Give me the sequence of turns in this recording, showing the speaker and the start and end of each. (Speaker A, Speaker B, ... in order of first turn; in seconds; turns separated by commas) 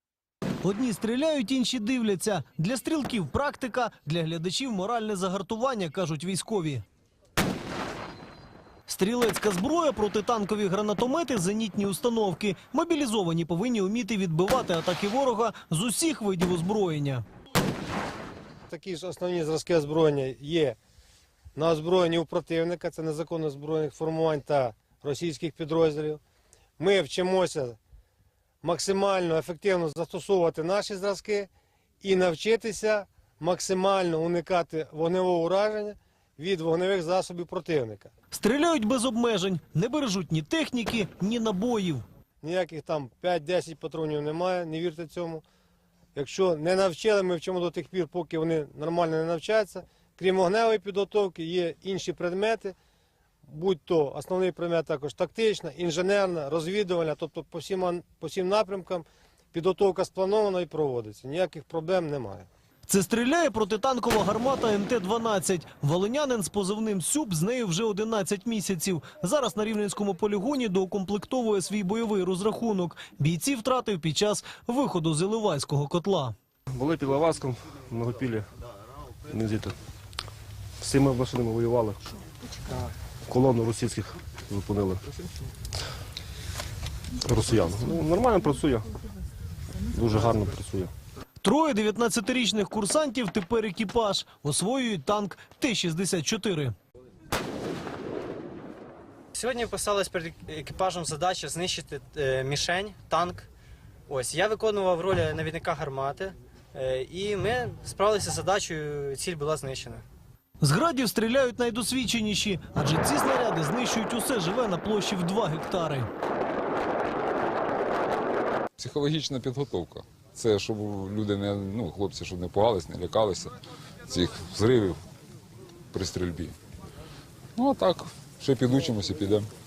Speaker A: 0.6-6.8, Speaker A: 8.9-17.2, Speaker B: 18.7-20.8, Speaker B: 21.6-26.2, Speaker B: 26.8-27.8, Speaker B: 28.6-31.5, Speaker B: 32.0-38.1, Speaker A: 38.3-42.0, Speaker B: 42.4-45.4, Speaker B: 46.1-52.8, Speaker B: 53.5-62.5, Speaker A: 62.9-76.3, Speaker C: 76.7-78.5, Speaker C: 79.3-79.7, Speaker C: 80.8-82.1, Speaker C: 83.3-85.0, Speaker C: 87.2-88.9, Speaker C: 89.9-90.9, Speaker A: 91.4-96.8, Speaker D: 99.3-103.5, Speaker D: 104.1-110.0, Speaker A: 110.6-116.1, Speaker E: 118.8-123.5, Speaker E: 124.1-125.0, Speaker E: 125.9-126.5, Speaker E: 127.6-129.5